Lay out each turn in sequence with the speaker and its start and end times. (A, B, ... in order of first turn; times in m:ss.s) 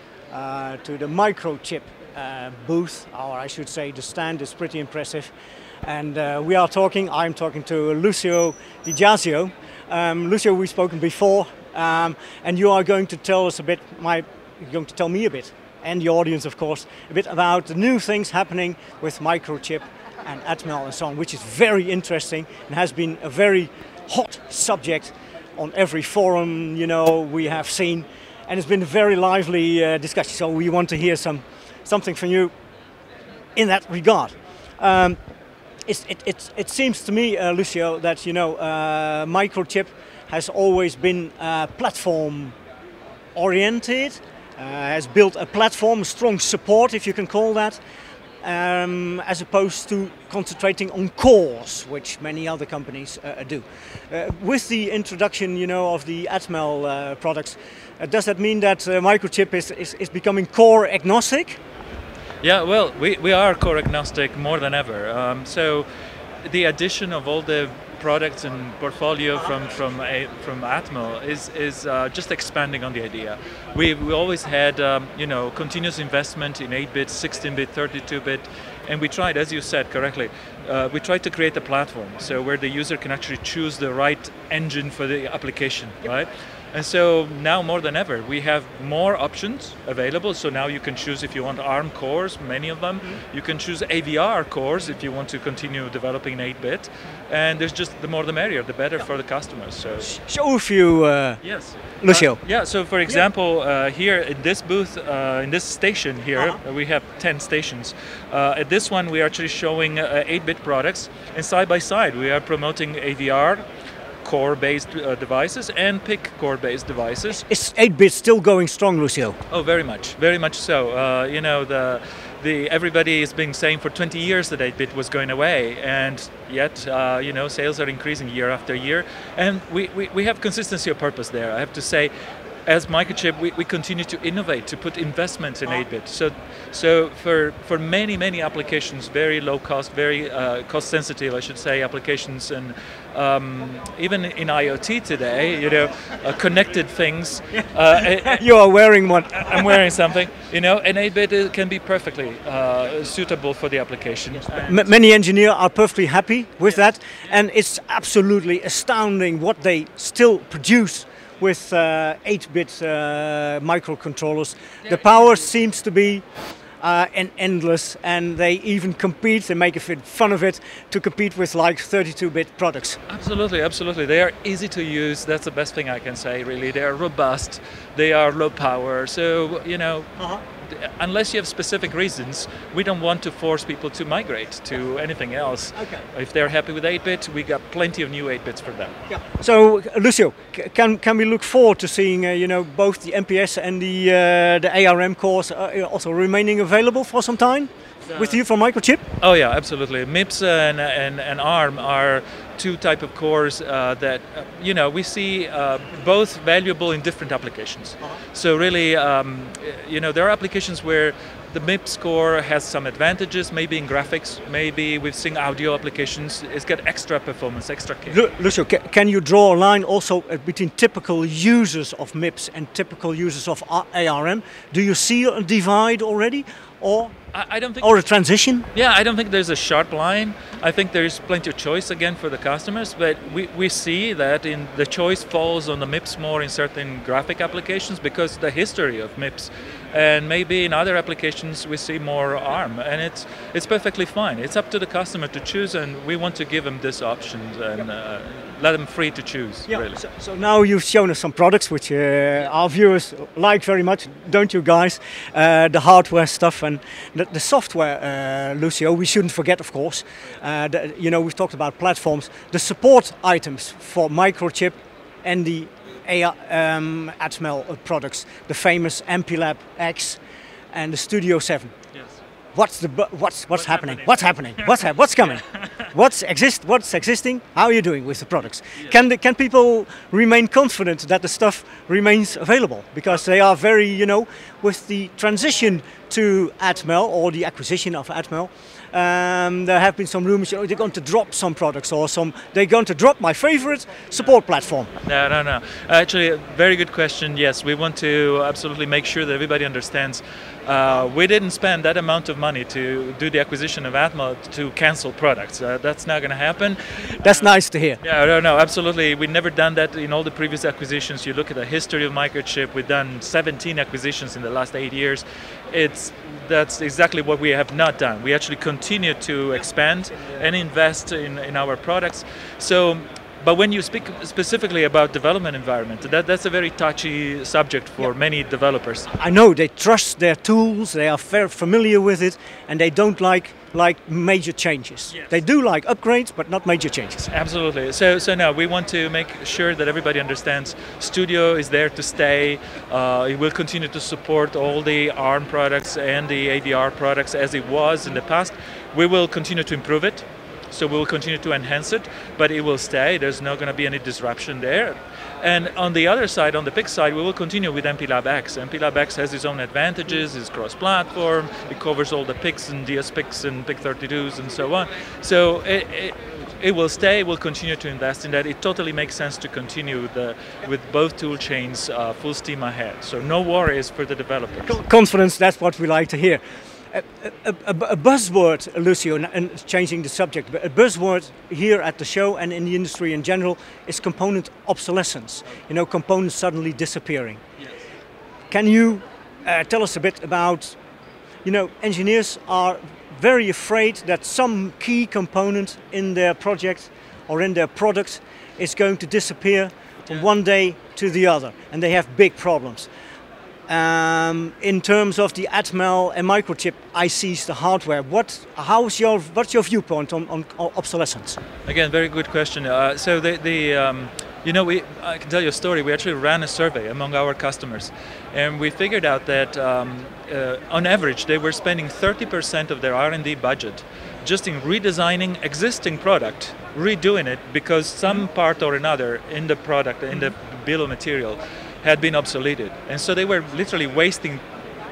0:00.3-0:05.3 A
0:05.8-0:32.5 A
0:33.6-0:35.2 A
0:35.8-0:42.6 A
0:43.3-0:47.8 A
0:48.4-1:01.6 A
1:02.4-1:05.8 B
1:06.4-1:40.1 B
1:40.0-1:41.4 A
1:41.4-1:53.6 B
1:42.0-1:42.4 A
1:54.2-1:57.4 B
1:57.3-1:59.4 A
1:59.5-2:12.1 B
2:12.6-2:28.5 B
2:28.2-2:29.6 A
2:29.3-2:34.9 B
2:34.6-2:46.2 A
2:46.8-2:53.0 A
2:53.1-3:00.1 B
3:00.6-3:09.0 B
3:05.8-3:06.0 A
3:09.1-3:19.0 A
3:19.2-3:38.2 B
3:38.1-3:47.1 A
3:47.3-3:47.9 B
3:47.8-3:48.7 A
3:48.7-4:10.0 B
4:09.7-4:30.2 A
4:30.7-4:31.7 A
4:31.9-4:32.2 B
4:32.5-4:54.9 A
4:33.6-4:35.9 B
4:55.0-5:07.5 B
5:07.2-5:08.0 A
5:08.0-5:29.1 B
5:29.2-5:37.3 A
5:37.3-6:14.8 B
6:14.6-6:27.4 A
6:28.5-6:30.8 A
6:31.4-6:42.9 A
6:43.7-6:51.4 A
6:51.6-7:14.4 B